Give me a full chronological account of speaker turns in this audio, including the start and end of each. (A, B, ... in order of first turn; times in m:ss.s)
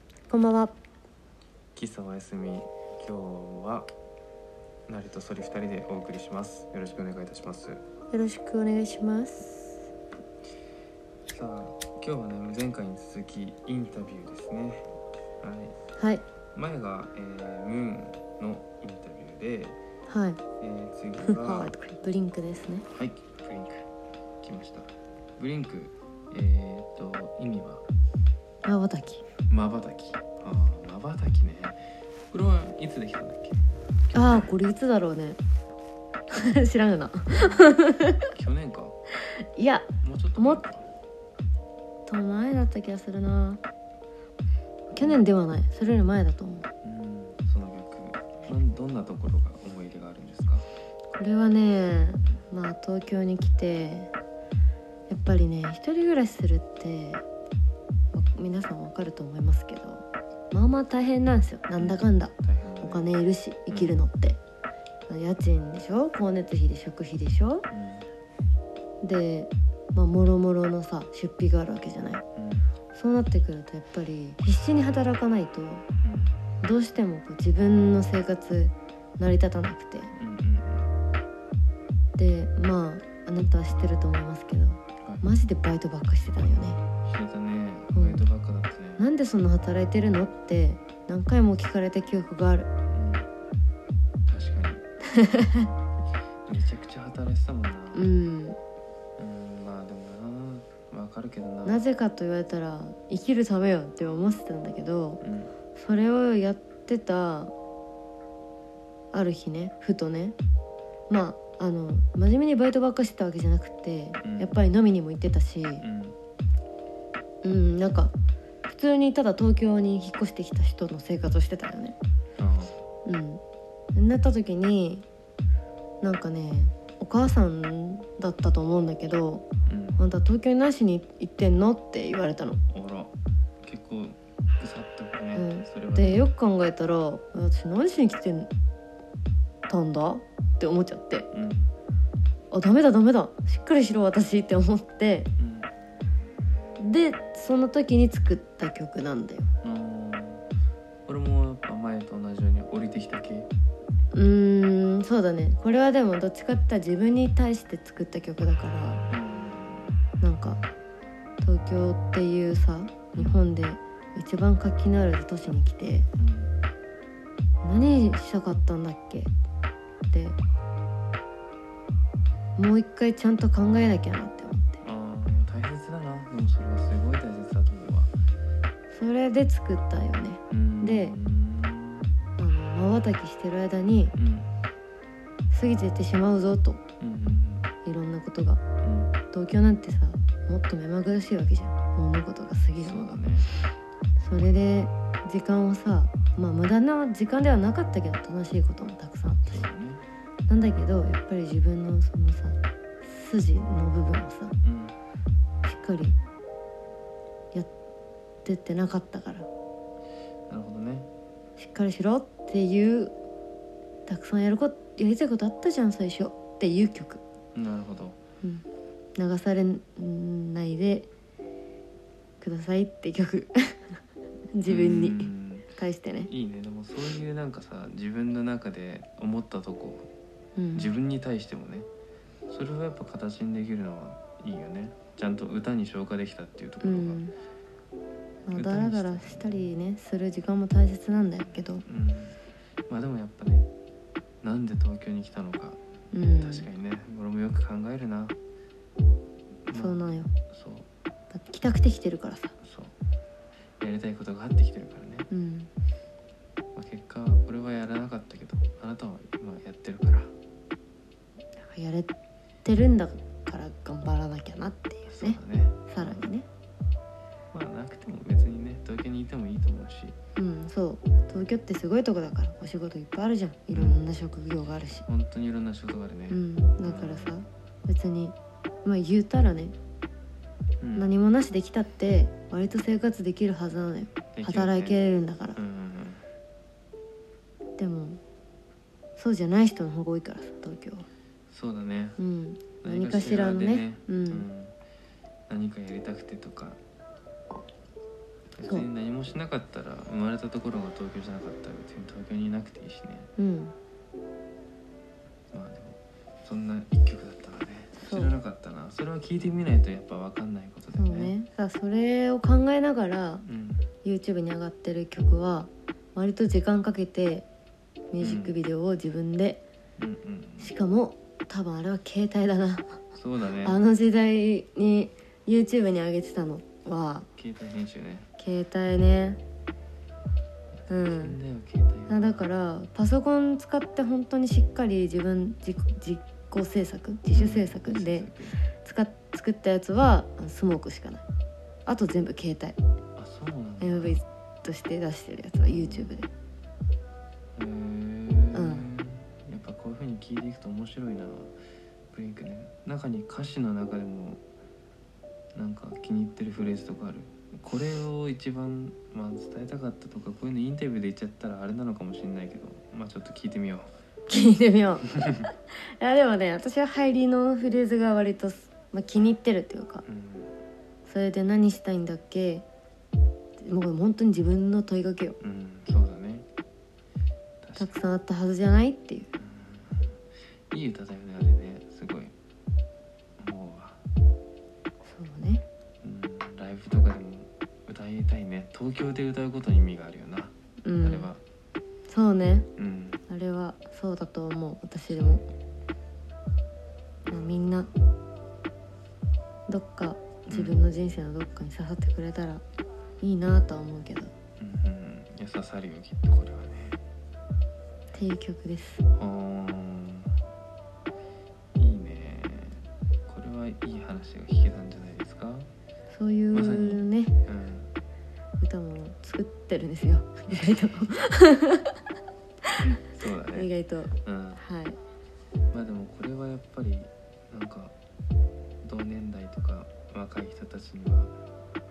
0:00.3-0:00.7 A
0:01.7-0:03.9 B
0:04.9-0:07.8 B
0:08.1-0:09.9 A
0:11.2-0:15.8 B
0:16.0-0:16.2 A
0:16.5-0:19.8 B
0:20.1-0:20.4 A
0:20.6-0:21.7 B
0:21.2-0:22.8 A
0:22.9-0:23.8 B
0:24.4-0:27.8 B
0:28.6-0:29.2 A
0:29.5-0:31.8 B
0:32.3-0:34.5 B
0:34.1-0:35.4 A
0:36.3-0:38.3 A
0:37.3-0:37.7 B
0:38.3-0:39.0 B
0:39.5-0:40.6 A
0:40.0-0:40.8 B
0:42.1-0:43.6 A
0:44.9-0:46.7 A
0:45.0-0:45.2 B
0:46.8-0:50.6 B
0:51.1-0:54.1 A
0:55.1-0:57.2 A
0:58.1-1:04.4 A
1:01.8-1:03.1 B
1:03.7-1:03.9 B
1:05.1-1:07.7 A
1:07.7-1:08.1 B
1:09.0-1:12.2 A
1:12.4-1:12.7 B
1:12.9-1:15.8 A
1:16.0-1:16.4 B
1:16.6-1:20.1 A
1:20.1-1:20.9 B
1:22.2-1:26.8 A
1:27.0-1:29.0 B
1:27.9-1:28.2 A
1:29.0-1:32.7 A
1:32.9-1:33.3 B
1:34.3-1:34.8 B
1:35.2-1:35.7 A
1:36.5-1:38.1 B
1:37.9-1:38.6 A
1:39.2-1:41.8 B
1:41.6-1:45.2 A
1:45.2-1:45.5 B
1:45.7-1:47.5 A
1:49.1-1:50.3 A
1:51.1-1:55.8 A
1:54.2-1:54.5 B
1:55.8-1:56.2 B
1:57.4-1:58.1 A
1:58.7-2:02.0 A
2:02.4-2:02.8 B
2:03.0-2:03.4 A
2:03.9-2:05.0 A
2:06.0-2:09.4 A
2:09.6-2:10.0 B
2:10.0-2:12.6 A
2:12.7-2:16.2 B
2:15.3-2:18.5 A
2:19.7-2:21.3 A
2:21.3-2:21.7 B
2:22.5-2:25.3 A
2:25.4-2:25.7 B
2:26.8-2:29.5 A
2:29.6-2:30.5 B
2:31.0-2:33.5 B
2:34.1-2:39.0 A
2:39.1-2:40.0 B
2:40.2-2:40.6 A
2:41.4-2:46.1 A
2:43.1-2:43.4 B
2:46.2-2:46.5 B
2:47.6-2:49.3 A
2:50.1-2:50.4 A
2:52.6-2:54.8 A
2:54.8-2:58.1 B
2:58.9-3:01.2 A
3:00.5-3:02.2 B
3:02.4-3:04.1 A
3:04.1-3:04.5 B
3:05.5-3:06.8 A
3:07.0-3:07.7 B
3:07.8-3:08.6 A
3:08.8-3:09.2 B
3:09.3-3:13.2 A
3:12.8-3:13.5 B
3:14.2-3:19.6 A
3:19.4-3:20.0 B
3:20.5-3:24.6 A
3:24.6-3:25.0 B
3:25.6-3:26.2 A
3:28.4-3:29.5 A
3:30.5-3:31.1 B
3:31.6-3:33.1 A
3:34.1-3:37.2 A
3:37.5-3:38.2 B
3:39.2-3:41.1 A
3:42.4-3:44.0 A
3:44.5-3:46.3 A
3:44.6-3:45.7 B
3:46.2-3:50.1 B
3:50.6-3:50.9 A
3:50.7-3:51.9 B
3:52.5-3:57.2 B
3:56.8-3:57.3 A
3:58.5-4:01.8 A
3:58.5-3:59.6 B
4:01.8-4:03.7 B
4:04.4-4:05.8 B
4:06.1-4:06.7 A
4:06.4-4:08.4 B
4:09.7-4:10.9 B
4:09.7-4:10.3 A
4:11.3-4:12.6 A
4:12.6-4:12.9 B
4:13.8-4:15.3 B
4:15.3-4:15.7 A
4:16.7-4:20.3 B
4:21.6-4:22.1 A
4:22.6-4:26.5 A
4:25.0-4:26.3 B
4:27.5-4:30.2 B
4:30.4-4:35.0 A
4:33.7-4:34.0 B
4:35.0-4:37.4 B
4:36.3-4:39.7 A
4:40.8-4:41.1 B
4:41.0-4:45.6 A
4:44.3-4:45.0 B
4:45.5-4:46.2 B
4:47.8-4:48.2 A
4:49.2-4:51.0 A
4:51.5-4:52.2 B
4:52.2-4:54.4 A
4:52.8-4:54.7 B
4:55.5-4:56.8 B
4:58.6-5:03.3 B
5:03.4-5:03.7 A
5:05.5-5:11.3 B
5:08.0-5:08.4 A
5:10.9-5:13.4 A
5:13.4-5:13.9 B
5:14.0-5:17.4 A
5:18.1-5:19.6 A
5:18.2-5:18.6 B
5:20.0-5:20.7 B
5:20.6-5:23.0 A
5:23.1-5:23.8 B
5:23.6-5:27.3 A
5:27.4-5:28.3 B
5:28.4-5:29.4 A
5:30.8-5:32.4 B
5:30.9-5:31.4 A
5:32.1-5:41.2 A
5:37.3-5:38.6 B
5:41.8-5:42.8 A
5:43.2-5:44.2 B
5:43.8-5:46.3 A
5:45.7-5:46.1 B
5:47.6-5:51.5 B
5:48.5-5:48.9 A
5:52.1-5:54.4 B
5:55.5-6:03.9 B
6:04.3-6:10.0 A
6:10.0-6:10.5 B
6:11.0-6:12.6 A
6:13.6-6:15.4 A
6:15.4-6:16.5 B
6:17.6-6:17.9 B
6:17.8-6:19.3 A
6:19.4-6:22.3 B
6:23.4-6:24.0 B
6:25.0-6:25.6 A
6:26.0-6:31.4 B
6:30.8-6:31.3 A
6:32.1-6:32.7 A
6:32.8-6:33.2 B
6:33.3-6:35.5 A
6:37.2-6:37.5 B
6:37.2-6:37.9 A
6:39.7-6:42.6 A
6:40.5-6:40.8 B
6:43.2-6:44.3 A
6:44.6-6:47.0 B
6:48.1-6:49.0 A
6:49.2-6:50.4 B
6:51.8-6:55.7 B
6:56.1-6:57.4 A
6:56.5-6:57.9 B
6:58.6-7:01.9 A
7:02.7-7:05.0 A
7:02.8-7:03.7 B
7:04.2-7:04.6 B
7:05.7-7:07.9 B
7:08.8-7:11.3 B